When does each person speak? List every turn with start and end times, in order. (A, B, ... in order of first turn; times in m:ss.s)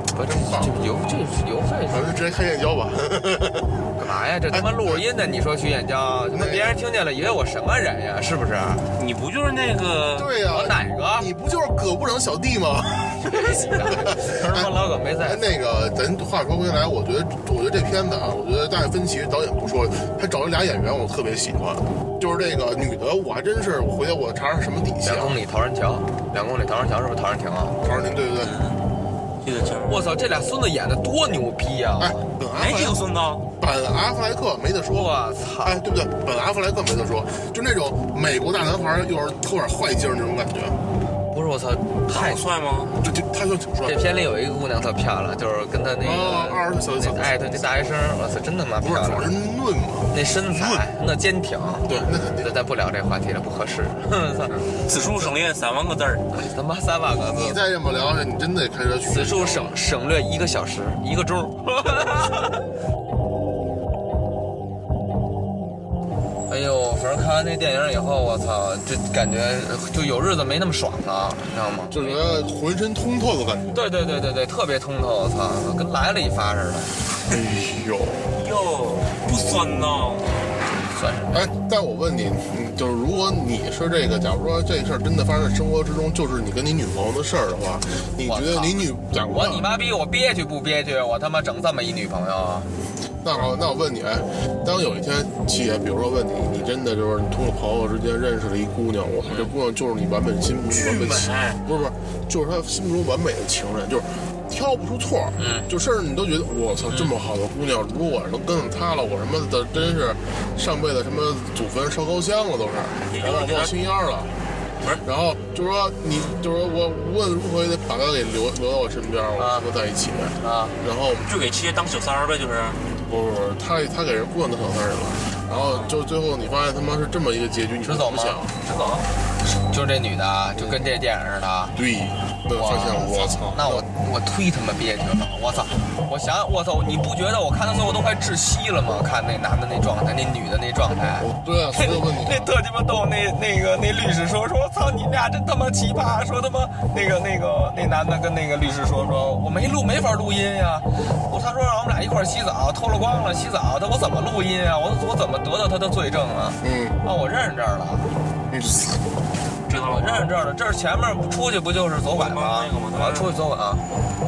0:00.1-0:02.2 A
0:00.4-0:00.8 B
0:01.9-0:03.9 B
0:04.0-0:08.9 A
0:04.5-0:05.0 B
0:06.3-0:06.8 B
0:09.0-0:10.3 C
0:10.2-0:14.7 B
0:10.5-0:11.3 A
0:13.2-0:15.5 A
0:15.2-0:25.4 B
0:25.0-0:27.8 A
0:27.8-0:28.6 B
0:28.4-0:28.8 C
0:29.4-0:30.2 C
0:29.8-0:32.3 A
0:32.0-0:33.0 B
0:32.6-0:33.5 C
0:33.6-0:35.1 B
0:34.9-0:35.8 A
0:35.6-0:40.8 B
0:41.3-0:42.4 A
0:42.1-0:43.0 C
0:43.0-0:44.1 B
0:43.8-0:49.3 A
0:46.0-0:48.0 B
0:48.8-0:50.9 B
0:50.1-0:54.7 A
0:51.9-0:52.6 B
0:54.9-0:56.3 C
0:56.3-0:57.6 A
0:57.2-0:59.8 B
0:59.1-1:02.7 A
1:06.5-1:12.2 A
1:11.9-1:13.8 B
1:13.7-1:17.0 A
1:17.3-1:18.3 B
1:18.3-1:20.4 C
1:20.9-1:21.5 A
1:21.3-1:29.7 B
1:28.3-1:32.7 A
1:33.2-1:54.3 B
1:40.7-1:41.6 C
1:45.4-1:45.7 A
1:53.1-1:53.8 C
1:55.0-2:01.3 B
1:59.4-1:59.7 A
2:00.4-2:00.8 A
2:01.2-2:02.9 C
2:03.1-2:08.6 B
2:05.5-2:06.0 C
2:07.8-2:08.5 A
2:08.6-2:09.1 C
2:09.7-2:11.8 A
2:10.6-2:10.9 B
2:11.8-2:13.9 B
2:12.6-2:38.1 A
2:21.2-2:22.5 B
2:36.6-2:37.0 B
2:38.5-2:39.0 B
2:39.7-2:40.4 C
2:39.9-2:43.9 A
2:42.1-2:43.3 C